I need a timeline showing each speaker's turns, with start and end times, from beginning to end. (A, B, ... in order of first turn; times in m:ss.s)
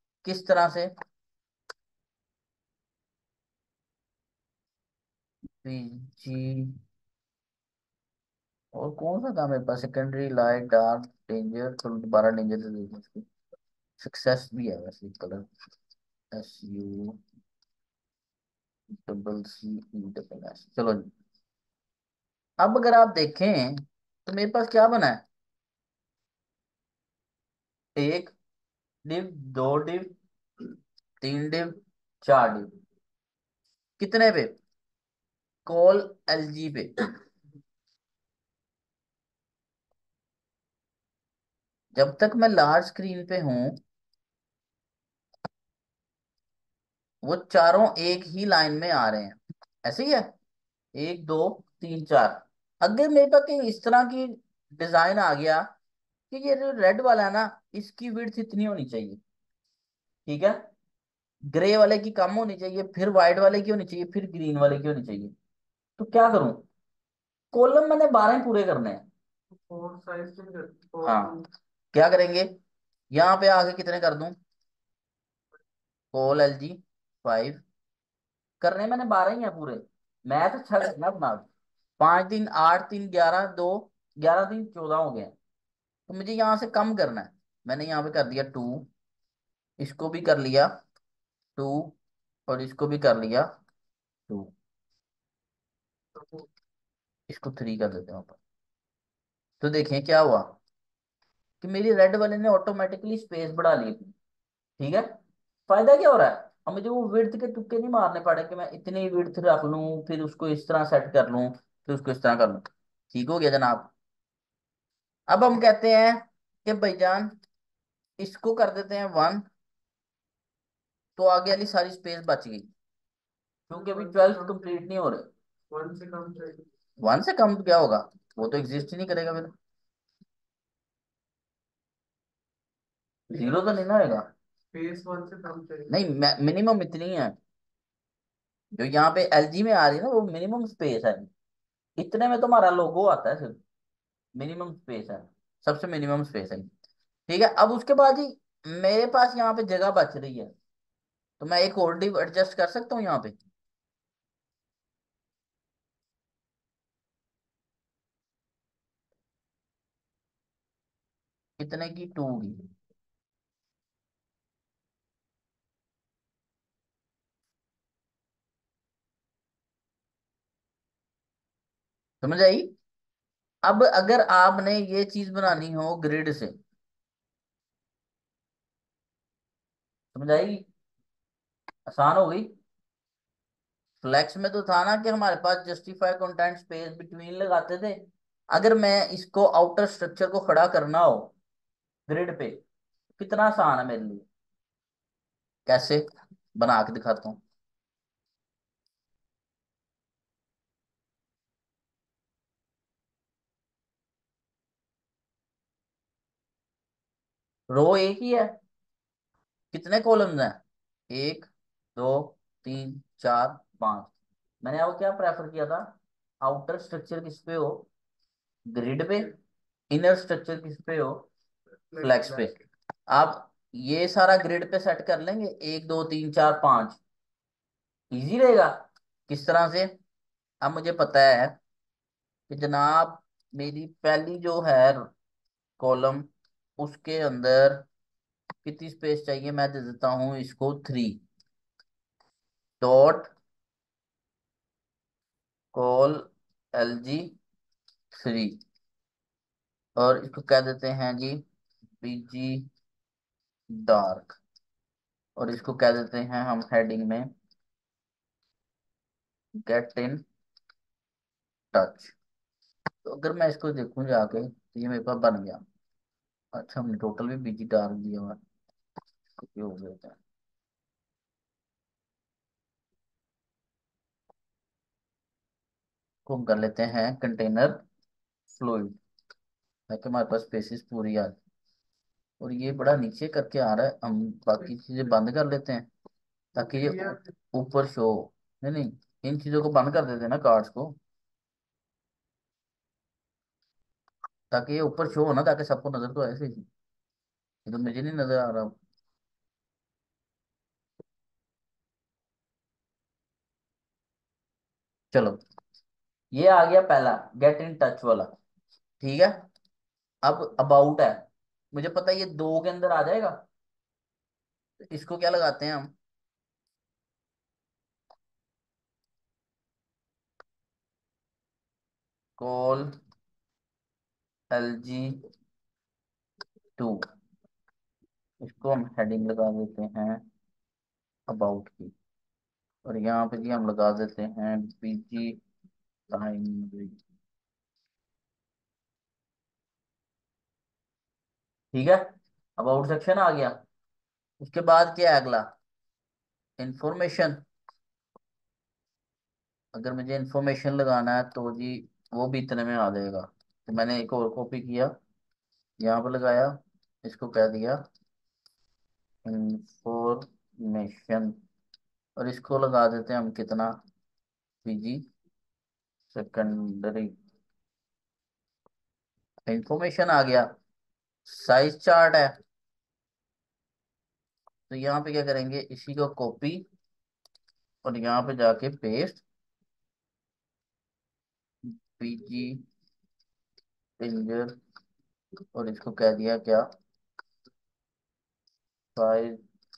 0:00.2-0:00.9 A
0:05.6-0:06.8 A
0:08.7-0:13.2 A
0:14.0-0:15.5 A
0:16.3-0:17.2 A
0:19.0-0:21.1 A
0:22.6-0:25.2 A
0:28.0-0:28.3 A
0:29.0-0:30.1 A
0:31.2-0:32.7 A
0:34.0-0:34.5 A
0:35.6-0:37.1 A
0:41.9-0:43.8 A
0:47.2-0:50.3 A
0:51.0-0:55.6 A
0:56.3-0:59.2 A
1:00.2-1:00.6 A
1:01.5-1:05.3 A
1:06.0-1:06.6 A
1:07.5-1:09.0 A
1:09.5-1:11.4 B
1:11.0-1:11.3 A
1:11.9-1:12.5 A
1:13.1-1:14.4 A
1:16.1-1:17.6 A
1:18.6-1:21.4 A
1:22.0-1:25.3 A
1:26.1-1:28.9 A
1:29.8-1:30.7 A
1:31.6-1:32.0 A
1:32.5-1:33.5 A
1:36.1-1:36.5 B
1:37.3-1:38.4 A
1:39.6-1:40.6 A
1:41.6-1:44.1 A
1:44.8-1:45.1 A
1:45.7-1:53.9 A
1:55.3-1:57.3 A
1:58.2-1:59.4 A
2:01.2-2:02.7 A
2:03.7-2:04.6 B
2:03.7-2:05.3 A
2:05.7-2:06.7 B
2:07.0-2:09.5 A
2:13.3-2:14.3 A
2:13.3-2:13.7 B
2:14.7-2:16.0 B
2:15.9-2:17.4 A
2:18.7-2:21.3 A
2:22.0-2:23.6 A
2:24.4-2:26.7 A
2:27.3-2:30.5 A
2:31.4-2:33.3 A
2:41.6-2:42.6 A
2:52.2-2:52.7 A
2:53.6-2:56.6 A
3:00.1-3:00.6 A
3:01.9-3:02.5 A
3:04.0-3:11.3 A
3:12.1-3:12.6 A
3:13.2-3:14.2 A
3:15.7-3:16.0 A
3:16.5-3:17.4 A
3:27.7-3:28.6 A
3:29.7-3:30.6 A
3:31.1-3:37.9 A
3:38.7-3:39.3 A
3:39.9-3:41.3 A
3:41.9-3:42.6 B
3:42.0-3:42.5 A
3:43.1-3:47.0 A
3:48.1-3:49.9 A
3:50.6-3:51.6 A
3:52.5-3:55.1 A
3:55.8-3:56.3 A
3:56.8-3:57.9 A
3:58.6-4:01.2 A
4:02.8-4:03.3 A
4:05.7-4:07.3 A
4:08.1-4:08.6 A
4:10.0-4:11.4 A
4:12.0-4:12.7 A
4:13.7-4:14.4 A
4:15.4-4:17.3 A
4:19.6-4:20.2 A
4:21.7-4:22.1 A
4:23.0-4:25.6 A
4:26.5-4:28.4 A
4:29.4-4:30.2 A
4:36.2-4:37.8 A
4:38.5-4:39.0 A
4:39.9-4:41.4 A
4:42.4-4:45.9 A
4:46.5-4:51.0 A
4:46.8-4:47.3 B
4:54.5-4:56.7 A
4:57.6-4:58.8 A
5:05.1-5:05.4 A
5:06.3-5:08.3 A
5:09.0-5:09.4 A
5:10.2-5:13.4 A
5:14.8-5:15.9 A
5:22.4-5:22.9 A
5:24.5-5:25.2 A
5:26.8-5:27.0 A
5:28.4-5:30.2 A
5:31.3-5:31.9 A
5:32.8-5:35.4 A
5:36.1-5:37.0 A
5:41.7-5:42.0 A
5:42.6-5:43.6 A
5:44.4-5:45.5 A
5:46.6-5:47.4 A
5:49.7-5:54.9 A
5:55.8-5:57.8 A
5:59.2-6:01.4 A
6:02.2-6:03.8 A
6:04.6-6:05.0 A
6:06.1-6:07.1 A
6:09.5-6:10.5 A
6:11.2-6:12.4 A
6:14.7-6:16.6 A
6:17.8-6:19.2 A
6:22.0-6:22.6 A
6:24.0-6:24.6 A
6:25.5-6:26.7 A
6:28.9-6:29.4 A